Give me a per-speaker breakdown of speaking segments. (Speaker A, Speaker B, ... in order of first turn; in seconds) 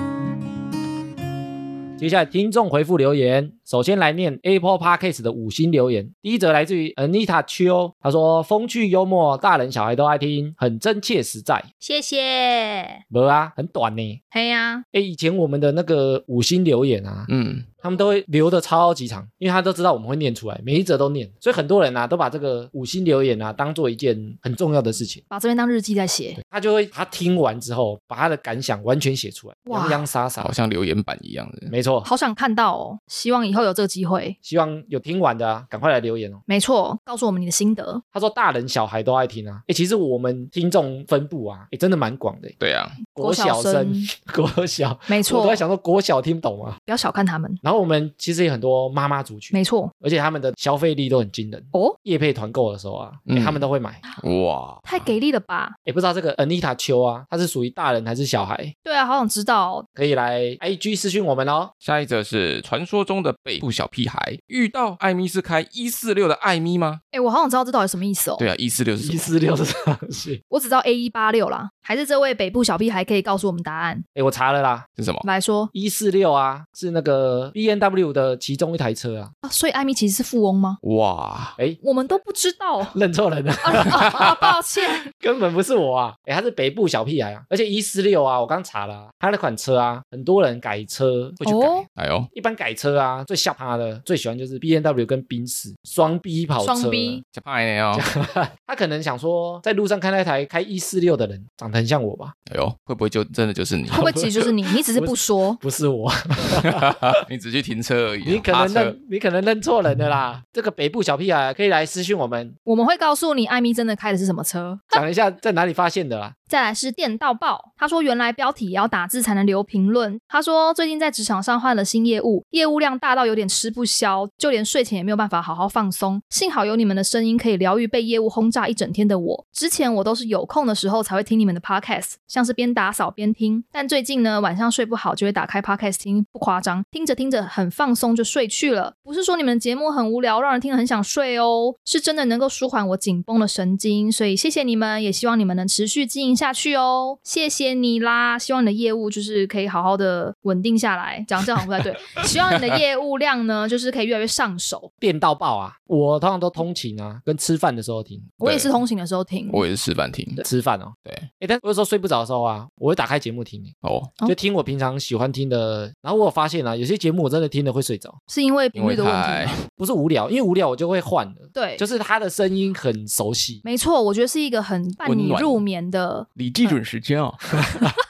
Speaker A: 2.0-11.7, 13.1-14.2, 14.9-25.2, 26.4-30.5, 31.7-32.1, 34.4-36.4, 38.1-42.6, 43.1-46.8, 47.6-54.0, 55.9-58.7, 59.9-61.7, 69.0-70.4, 74.1-74.9, 75.7-79.3, 82.9-84.5, 85.1-97.2, 97.9-102.3, 104.0-107.2, 108.2-112.5, 114.9-116.3, 155.0-158.3, 160.4-163.7, 164.2-168.2, 169.7-173.6, 177.6-177.9
Speaker B: 11.8-13.0, 14.3-14.8, 25.3-26.4, 29.7-30.0, 32.0-34.4, 36.5-38.0, 43.1-44.1, 45.1-45.6, 46.9-47.6, 49.5-49.9, 54.8-55.8, 58.8-59.9, 67.1-68.4, 70.5-74.0, 75.2-75.7, 79.4-80.8, 81.8-83.0, 83.6-85.1, 91.4-91.9, 96.6-97.2, 103.9-105.6, 112.7-115.0, 116.5-154.9, 158.4-159.6, 168.3-169.6, 171.5-171.8, 173.6-176.8
Speaker C: 17.3-17.7, 30.4-31.7, 42.6-43.0, 53.3-53.6, 54.2-55.1, 61.8-67.0, 68.4-69.3, 75.0-75.2, 80.8-81.5, 92.0-92.3, 97.2-98.0, 102.5-104.3, 106.6-109.0, 151.8-152.8, 158.4-158.8, 159.5-160.4, 163.8-164.1, 168.7-169.6, 175.0-175.6, 176.3-177.4